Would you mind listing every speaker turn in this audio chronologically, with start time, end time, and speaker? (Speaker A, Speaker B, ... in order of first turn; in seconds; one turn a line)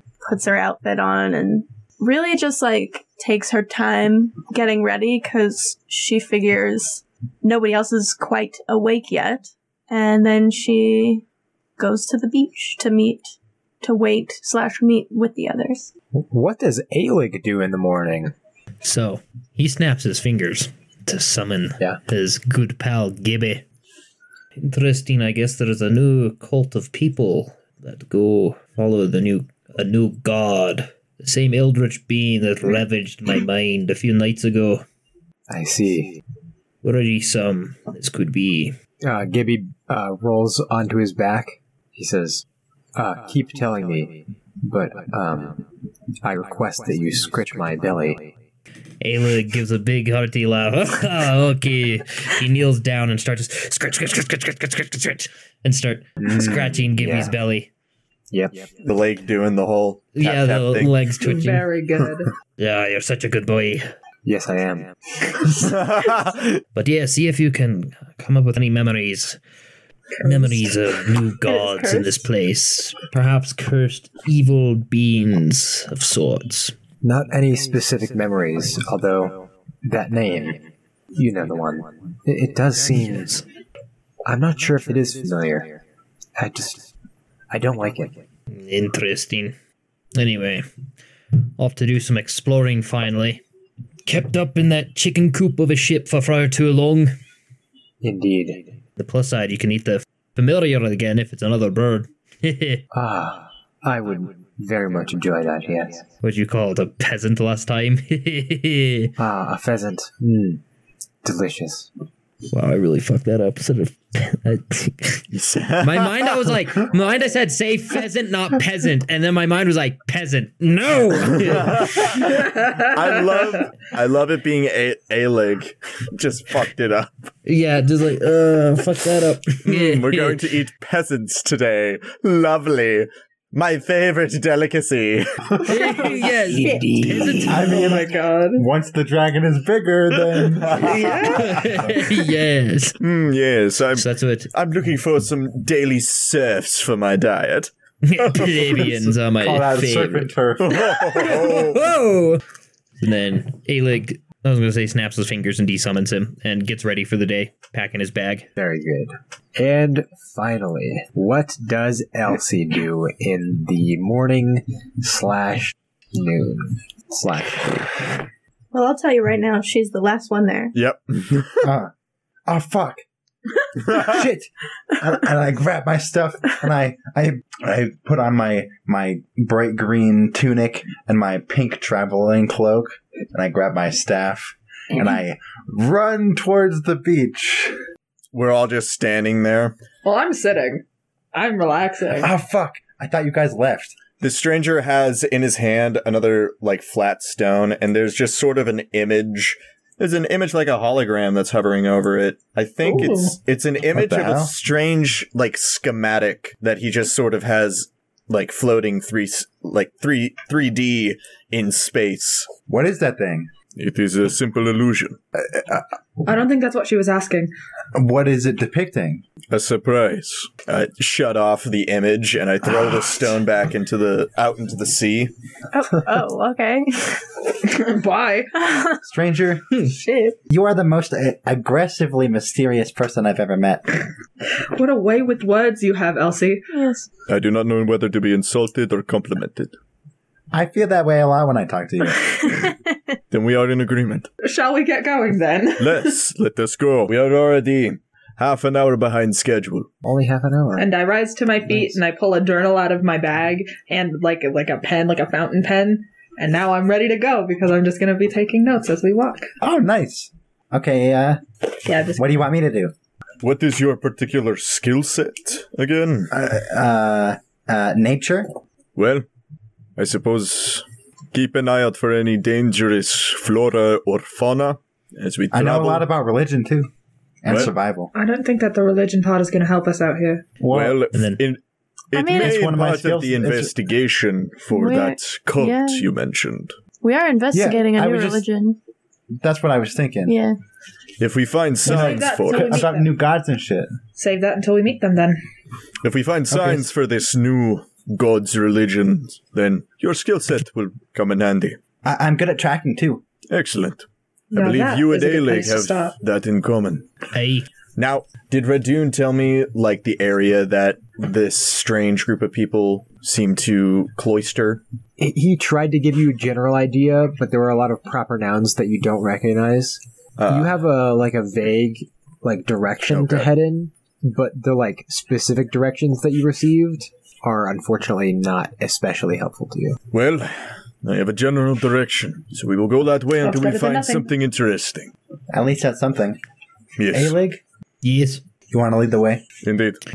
Speaker A: 0.2-11.2
Speaker A: 11.8-15.9
Speaker B: 16.1-18.3
Speaker C: 18.8-23.6
Speaker C: 24.6-34.8
Speaker B: 35.5-36.2
Speaker C: 36.8-38.8
Speaker B: 39.0-45.6
Speaker B: 46.2-48.3
Speaker C: 49.0-57.7
Speaker B: 56.2-57.3
Speaker B: 58.3-58.7
Speaker D: 58.8-61.0
Speaker C: 60.1-61.7
Speaker E: 61.2-62.3
Speaker C: 62.6-63.8
Speaker B: 64.2-64.9
Speaker D: 65.5-66.6
Speaker C: 66.7-69.4
Speaker E: 70.2-70.8
Speaker C: 70.2-76.7
Speaker E: 71.4-72.0
Speaker B: 77.0-83.4
Speaker B: 84.2-85.8
Speaker B: 86.4-86.9
Speaker B: 87.5-88.2
Speaker C: 88.5-89.5
Speaker C: 90.2-90.6
Speaker C: 91.6-93.4
Speaker C: 94.0-97.1
Speaker B: 98.0-98.6
Speaker C: 99.0-102.8
Speaker B: 102.9-106.0
Speaker C: 106.2-109.1
Speaker B: 109.2-110.6
Speaker B: 111.2-111.9
Speaker C: 112.5-115.3
Speaker D: 115.3-116.8
Speaker C: 115.8-122.2
Speaker D: 121.3-127.1
Speaker E: 122.4-123.6
Speaker C: 127.5-130.6
Speaker D: 129.6-135.5
Speaker C: 135.6-137.7
Speaker F: 137.4-141.9
Speaker E: 137.5-138.6
Speaker D: 140.3-141.5
Speaker C: 140.8-143.0
Speaker E: 140.9-141.5
Speaker D: 143.0-149.1
Speaker C: 143.9-144.5
Speaker C: 148.0-152.4
Speaker F: 149.3-150.8
Speaker D: 150.6-151.9
Speaker C: 153.0-158.5
Speaker B: 158.6-168.1
Speaker A: 168.7-170.7
Speaker D: 170.7-171.7
Speaker F: 171.6-171.9
Speaker F: 172.5-173.0
Speaker F: 173.8-187.8
Speaker D: 188.3-189.8
Speaker E: 190.0-192.3
Speaker F: 192.2-194.0
Speaker D: 194.2-212.5
Speaker E: 202.8-203.3
Speaker F: 203.8-204.5
Speaker F: 212.7-213.5
Speaker D: 213.7-215.2
Speaker F: 215.4-215.8
Speaker E: 216.2-217.5
Speaker F: 217.9-219.2
Speaker D: 219.5-225.3
Speaker F: 222.7-223.0
Speaker A: 225.7-227.2
Speaker E: 227.6-228.5
Speaker A: 228.5-229.0
Speaker F: 229.0-229.7
Speaker A: 229.8-230.3
Speaker F: 230.5-234.1
Speaker E: 234.7-236.6
Speaker A: 236.7-237.1
Speaker D: 237.3-239.7
Speaker F: 240.5-242.7
Speaker D: 243.3-244.3
Speaker E: 244.4-246.2
Speaker D: 245.8-249.9
Speaker B: 250.0-250.9
Speaker E: 250.8-259.5
Speaker B: 251.7-252.0
Speaker F: 259.6-261.4
Speaker E: 261.8-262.4
Speaker F: 262.1-262.9
Speaker D: 263.4-266.4
Speaker F: 266.3-268.5
Speaker D: 268.9-269.2
Speaker D: 270.0-276.1
Speaker F: 275.5-276.9
Speaker F: 277.4-278.1
Speaker D: 277.5-277.7
Speaker E: 278.1-280.4
Speaker F: 280.6-281.0
Speaker D: 280.7-281.6
Speaker C: 281.1-281.4
Speaker D: 282.1-286.8
Speaker A: 282.1-282.6
Speaker F: 282.3-283.7
Speaker A: 284.7-286.1
Speaker A: 287.0-288.8
Speaker F: 287.5-288.4
Speaker F: 289.4-290.4
Speaker A: 290.2-290.6
Speaker D: 291.2-292.8
Speaker E: 291.8-293.1
Speaker F: 291.8-293.9
Speaker E: 294.1-295.4
Speaker D: 296.0-301.8
Speaker F: 296.5-296.9
Speaker F: 302.0-303.2
Speaker D: 303.5-307.1
Speaker E: 304.5-306.2
Speaker C: 307.3-307.7
Speaker D: 307.9-314.8
Speaker B: 315.2-330.0
Speaker D: 320.4-320.8
Speaker D: 323.1-323.5
Speaker D: 330.1-335.1
Speaker E: 333.4-334.3
Speaker F: 335.5-336.4
Speaker D: 337.0-337.3
Speaker F: 337.1-337.6
Speaker C: 338.0-338.4
Speaker F: 338.7-339.4
Speaker D: 339.6-340.0